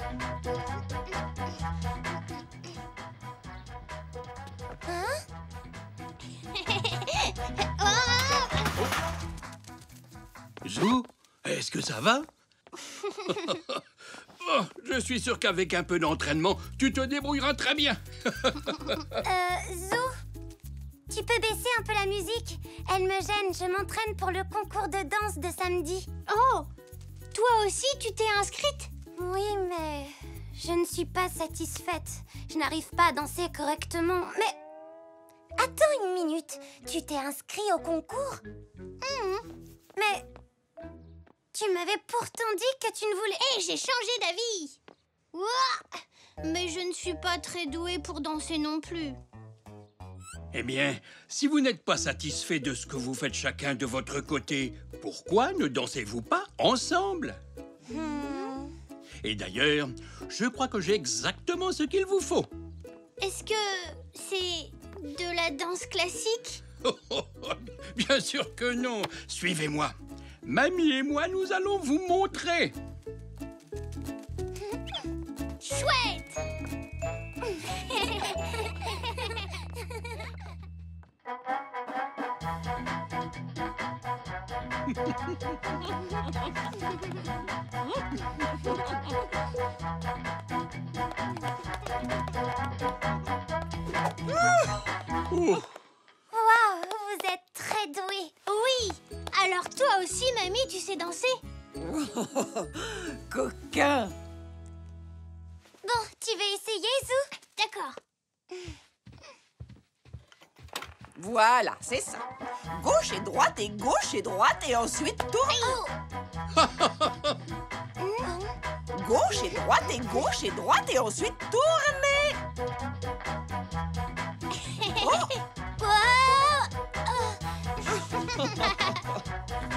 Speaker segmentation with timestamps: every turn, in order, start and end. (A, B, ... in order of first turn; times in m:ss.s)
0:04.9-0:05.2 A
0:07.8-0:08.7 B
0:10.6-0:12.3 C
0:13.3-0:13.8 C
0:14.4-0:19.0 C
0:19.2-0:20.1 A
0:21.1-0:26.1 A
0:26.3-0:26.7 B
0:27.3-0:28.9 B
0:29.0-0:34.6 A
0:35.6-0:38.4 A
0:39.0-0:39.4 B
0:40.0-0:40.2 A
0:41.5-0:43.4 A
0:43.4-0:44.8 B
0:45.3-0:49.2 B
0:50.5-0:57.4 C
0:58.0-0:58.6 B
0:59.2-1:02.5 C
1:03.2-1:06.6 B
1:06.8-1:12.7 C
1:15.6-1:16.4 B
1:17.8-1:19.3 B
1:35.3-1:35.7 C
1:36.3-1:38.3 A
1:38.4-1:41.4 B
1:41.8-1:44.1 D
1:45.8-1:47.2 A
1:47.6-1:48.0 B
1:51.2-1:55.8 D
1:56.5-1:57.4 C
1:58.2-1:58.5 A
1:58.9-2:02.4 D
2:05.0-2:05.3 D